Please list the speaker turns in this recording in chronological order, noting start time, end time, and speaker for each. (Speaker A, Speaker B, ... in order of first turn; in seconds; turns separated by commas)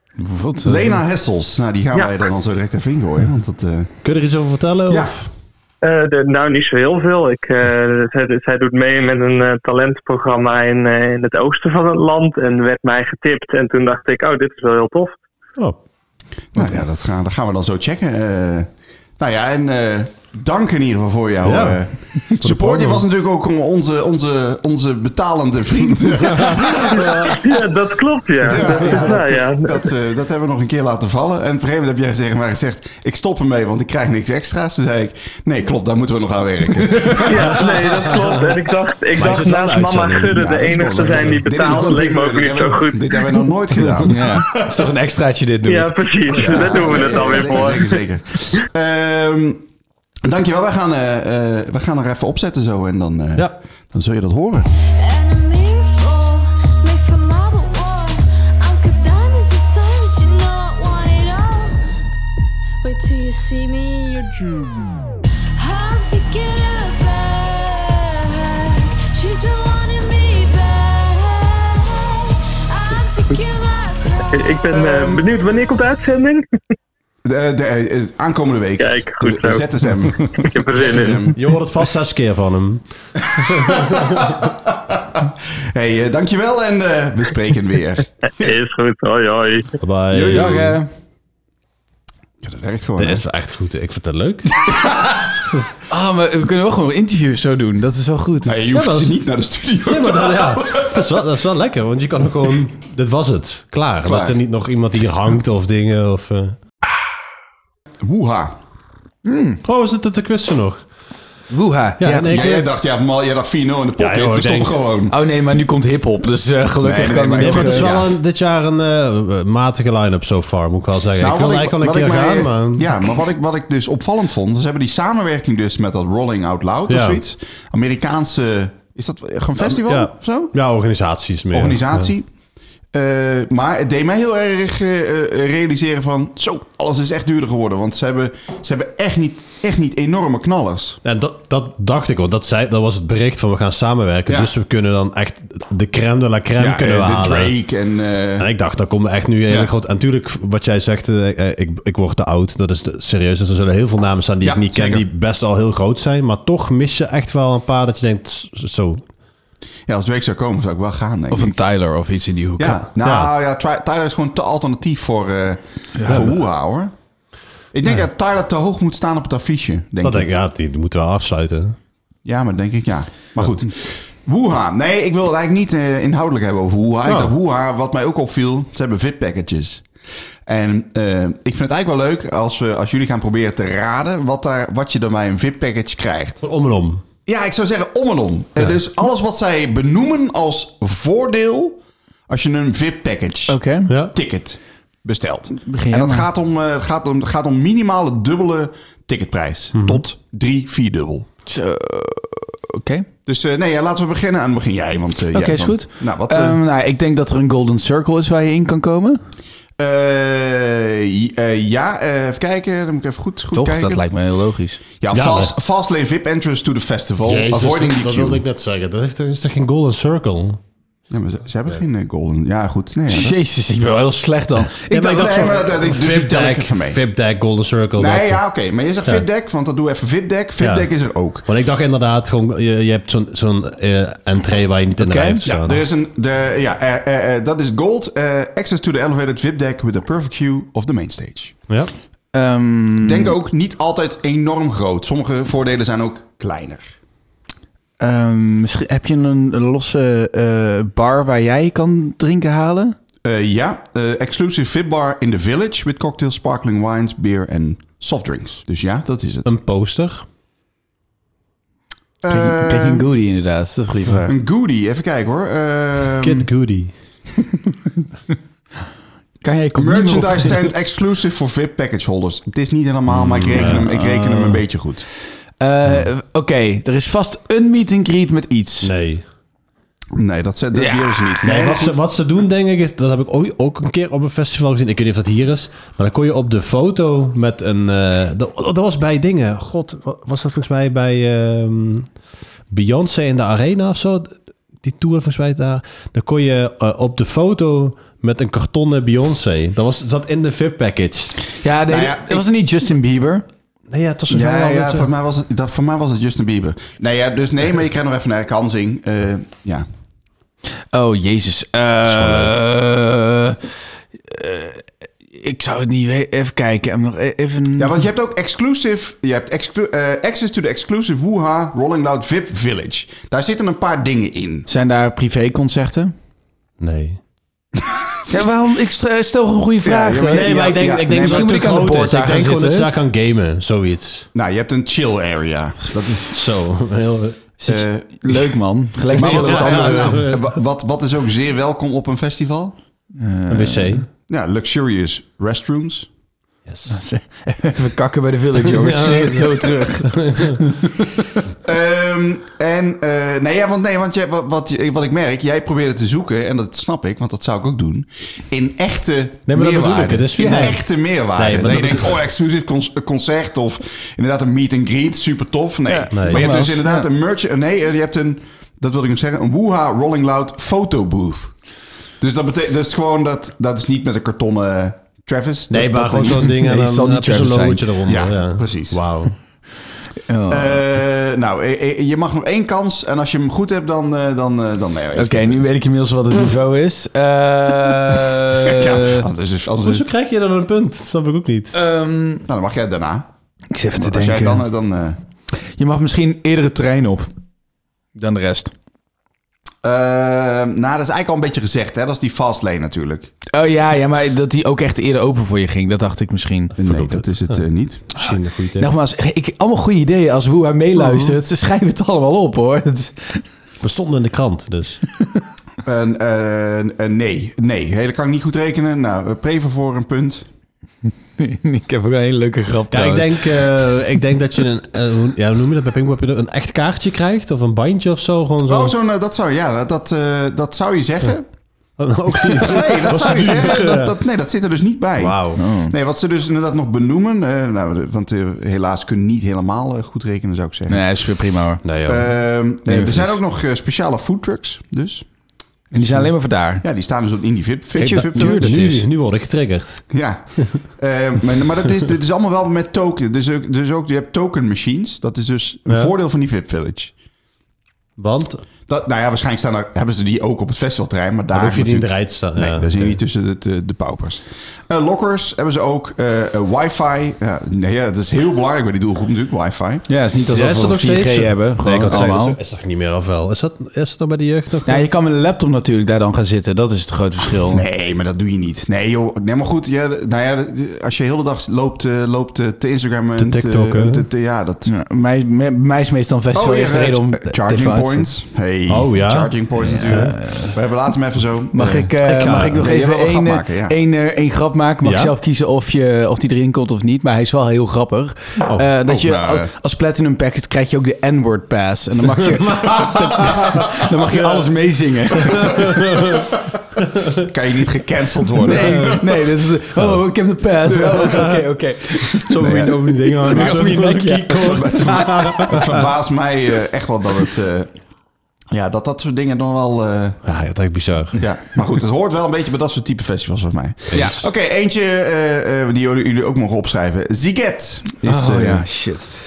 Speaker A: 0.2-1.0, Speaker B: 0.6-4.0, Speaker C: 4.0-5.3, Speaker B: 4.9-5.2, Speaker D: 5.8-15.2, Speaker B: 16.5-27.4, Speaker C: 21.4-23.0, Speaker C: 26.2-27.3, Speaker D: 26.8-29.9, Speaker B: 28.4-38.1, Speaker C: 28.6-29.1, Speaker A: 36.9-37.2, Speaker C: 37.2-38.4, Speaker D: 37.2-43.4, Speaker C: 39.1-41.8, Speaker B: 40.3-44.9, Speaker A: 44.0-46.0, Speaker D: 45.6-48.0, Speaker B: 46.3-49.6, Speaker B: 50.2-54.7, Speaker E: 55.0-61.8, Speaker E: 62.8-65.0, Speaker E: 65.6-74.5, Speaker D: 74.3-76.5, Speaker B: 74.9-75.2, Speaker B: 77.2-81.4, Speaker D: 78.8-81.3, Speaker C: 81.3-84.3, Speaker B: 83.2-88.5, Speaker D: 88.4-89.7, Speaker C: 89.8-90.8, Speaker B: 90.1-90.7, Speaker A: 90.3-90.9, Speaker B: 92.4-93.2, Speaker C: 93.0-94.5, Speaker B: 94.6-95.3, Speaker A: 95.9-98.5, Speaker B: 98.4-101.1, Speaker C: 98.7-99.2, Speaker C: 99.8-106.6, Speaker B: 104.0-104.4, Speaker B: 108.0-108.6, Speaker A: 109.2-109.6, Speaker C: 109.6-110.8, Speaker A: 111.5-112.4, Speaker C: 112.0-112.7, Speaker B: 112.2-115.2, Speaker C: 114.0-114.8, Speaker A: 115.1-117.9, Speaker B: 116.8-118.1, Speaker C: 117.4-123.0, Speaker B: 121.2-130.6, Speaker C: 126.9-127.2, Speaker C: 129.6-132.1, Speaker B: 131.5-132.3, Speaker B: 132.9-141.0, Speaker C: 141.0-147.5, Speaker B: 144.3-144.5, Speaker B: 146.6-148.5, Speaker C: 148.4-159.0, Speaker B: 154.4-155.1, Speaker B: 159.9-161.5, Speaker A: 161.3-162.8, Speaker B: 162.6-166.9, Speaker C: 163.0-163.3, Speaker A: 165.9-166.4, Speaker B: 167.7-170.3, Speaker C: 170.0-171.8, Speaker B: 172.2-179.8, Speaker C: 177.0-177.3, Speaker B: 180.5-186.4, Speaker C: 186.4-187.0, Speaker B: 187.2-201.3, Speaker A: 193.5-193.9, Speaker A: 195.6-196.3, Speaker C: 199.7-200.0, Speaker A: 201.4-203.1, Speaker B: 203.2-206.6, Speaker A: 205.3-209.2, Speaker B: 209.8-214.0, Speaker A: 213.5-214.8, Speaker B: 215.0-218.4, Speaker C: 215.1-215.5, Speaker C: 217.2-220.6, Speaker B: 221.1-223.3, Speaker A: 223.1-225.4, Speaker B: 224.9-227.0, Speaker C: 224.9-228.4, Speaker B: 227.9-231.4, Speaker C: 230.6-230.9, Speaker C: 231.4-235.8, Speaker A: 235.0-235.4, Speaker B: 235.4-241.6, Speaker A: 242.3-243.3, Speaker B: 243.0-246.9, Speaker A: 248.0-252.9, Speaker B: 253.2-259.5, Speaker C: 259.4-260.2, Speaker B: 262.2-263.1, Speaker A: 262.3-264.3, Speaker B: 264.3-266.5, Speaker C: 266.2-266.9, Speaker A: 269.4-270.6, Speaker B: 269.8-275.0, Speaker C: 273.1-273.9, Speaker A: 273.6-274.6, Speaker A: 275.6-278.9, Speaker C: 278.8-279.2, Speaker B: 280.1-282.0, Speaker A: 280.7-281.1, Speaker C: 281.4-292.1, Speaker C: 292.7-301.4, Speaker A: 301.6-303.4, Speaker B: 301.9-302.4, Speaker C: 303.9-305.1, Speaker B: 304.3-309.9, Speaker A: 310.9-313.6, Speaker C: 312.1-312.5, Speaker A: 314.2-317.9, Speaker B: 317.8-324.7, Speaker A: 324.7-326.1, Speaker C: 326.8-327.2, Speaker A: 328.3-330.5, Speaker B: 329.8-331.8, Speaker C: 330.2-334.3, Speaker A: 331.1-332.9, Speaker B: 334.3-336.3, Speaker C: 336.3-337.4, Speaker A: 337.6-340.2, Speaker B: 337.7-338.5, Speaker B: 339.1-342.7, Speaker C: 339.1-340.4, Speaker A: 343.2-344.0, Speaker C: 343.5-344.1, Speaker B: 344.3-346.1, Speaker C: 346.6-346.9, Speaker A: 346.9-351.4, Speaker C: 348.6-350.6, Speaker B: 351.6-371.5, Speaker C: 359.5-362.2, Speaker A: 360.4-360.7, Speaker A: 365.9-367.1, Speaker C: 366.1-366.5, Speaker B: 372.2-376.6, Speaker C: 375.7-379.3, Speaker A: 376.5-377.9, Speaker B: 378.1-379.1, Speaker A: 380.3-380.8, Speaker B: 380.5-385.7, Speaker A: 385.1-389.2, Speaker B: 388.3-390.1, Speaker C: 389.8-391.7, Speaker A: 391.7-392.4, Speaker B: 392.5-393.3, Speaker A: 393.7-394.6, Speaker B: 393.9-395.2, Speaker A: 395.8-397.3, Speaker A: 398.1-398.7, Speaker B: 399.8-403.3, Speaker A: 403.5-406.7, Speaker C: 406.8-407.6, Speaker B: 406.8-408.2, Speaker C: 408.1-408.9, Speaker A: 408.8-413.4, Speaker C: 413.8-415.0, Speaker B: 415.8-420.4, Speaker A: 421.4-423.8, Speaker C: 422.9-428.9, Speaker B: 428.7-431.4, Speaker C: 432.0-434.1, Speaker B: 432.6-441.0, Speaker C: 435.2-435.6, Speaker A: 435.6-435.9, Speaker A: 440.9-441.8, Speaker C: 441.8-442.3, Speaker B: 442.0-445.2, Speaker A: 442.9-443.3, Speaker B: 445.9-446.3, Speaker A: 445.9-446.8, Speaker B: 446.8-448.8, Speaker C: 448.0-450.1, Speaker A: 448.0-449.0, Speaker B: 450.1-457.1, Speaker C: 458.2-458.6, Speaker B: 458.9-470.1, Speaker C: 461.5-463.2, Speaker A: 470.1-472.6, Speaker C: 470.5-475.0, Speaker A: 474.9-477.8, Speaker B: 477.7-484.9, Speaker C: 483.4-484.2, Speaker A: 484.9-488.2, Speaker B: 486.5-494.0, Speaker C: 488.9-490.4, Speaker A: 490.1-490.7, Speaker A: 491.7-506.4, Speaker C: 491.8-492.9, Speaker C: 495.0-495.3, Speaker B: 499.1-499.7, Speaker C: 505.6-506.4, Speaker B: 507.4-509.4, Speaker A: 508.6-515.6, Speaker C: 508.7-509.2, Speaker C: 510.9-511.6, Speaker B: 510.9-511.4, Speaker C: 512.3-516.0, Speaker B: 512.6-517.9, Speaker B: 518.7-520.4, Speaker C: 520.4-521.4, Speaker B: 521.4-528.9, Speaker C: 524.1-524.4, Speaker A: 524.1-524.4, Speaker A: 528.2-529.3